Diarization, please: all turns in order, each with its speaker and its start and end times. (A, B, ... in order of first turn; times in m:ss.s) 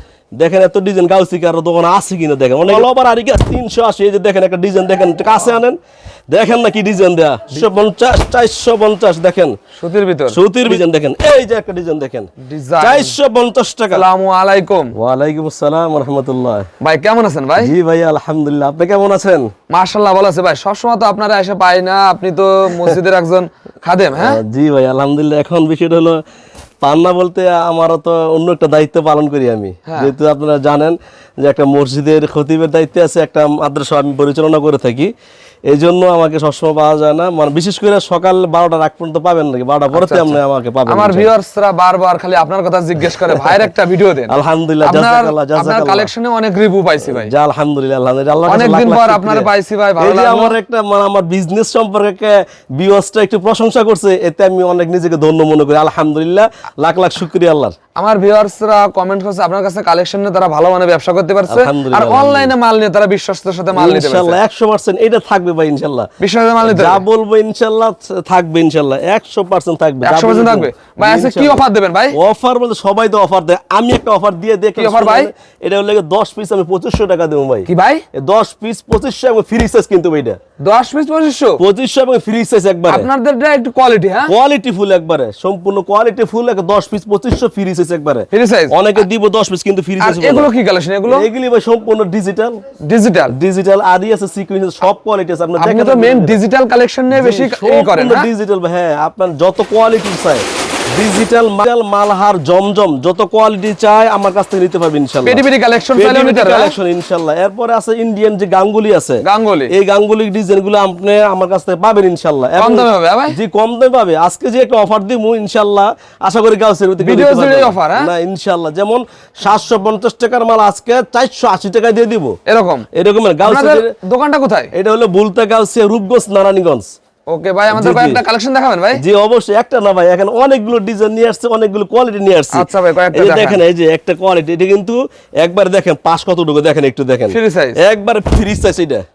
0:00.4-0:05.8 A
0:06.3-0:09.6 A
0:09.8-0:10.8 B
0:10.3-0:14.0 A
0:12.4-0:13.2 B
0:13.9-0:15.0 B
0:14.9-0:16.7 A
0:16.8-0:17.7 B
0:17.6-0:19.5 A
0:19.7-0:24.4 B
0:24.2-0:26.2 A
0:26.8-0:35.1 A
0:29.9-0:30.1 B
0:35.7-0:41.3 A
0:39.9-0:47.3 B
0:44.3-0:46.1 A
0:47.0-0:57.8 A
0:48.5-0:50.6 B
0:58.0-1:04.4 B
1:01.5-1:02.5 A
1:03.7-1:06.1 A
1:06.2-1:07.0 B
1:06.6-1:20.4 A
1:10.0-1:12.2 B
1:14.8-1:15.3 B
1:17.7-1:18.0 B
1:20.6-1:21.6 B
1:21.6-1:23.1 A
1:22.9-1:24.3 B
1:24.3-1:30.5 A
1:28.3-1:28.8 B
1:30.0-1:31.3 B
1:31.1-1:32.6 A
1:32.8-1:33.4 B
1:33.3-1:36.4 A
1:35.6-1:38.3 B
1:37.1-1:45.4 A
1:45.2-1:46.8 B
1:46.0-2:02.4 A
1:49.2-1:49.7 B
1:52.6-1:53.4 B
1:57.0-1:58.1 B
2:02.5-2:02.9 B
2:02.9-2:03.9 A
2:03.4-2:04.7 B
2:04.7-2:06.9 A
2:07.3-2:09.0 B
2:07.7-2:08.2 A
2:09.0-2:19.0 A
2:12.5-2:13.6 B
2:17.3-2:17.8 B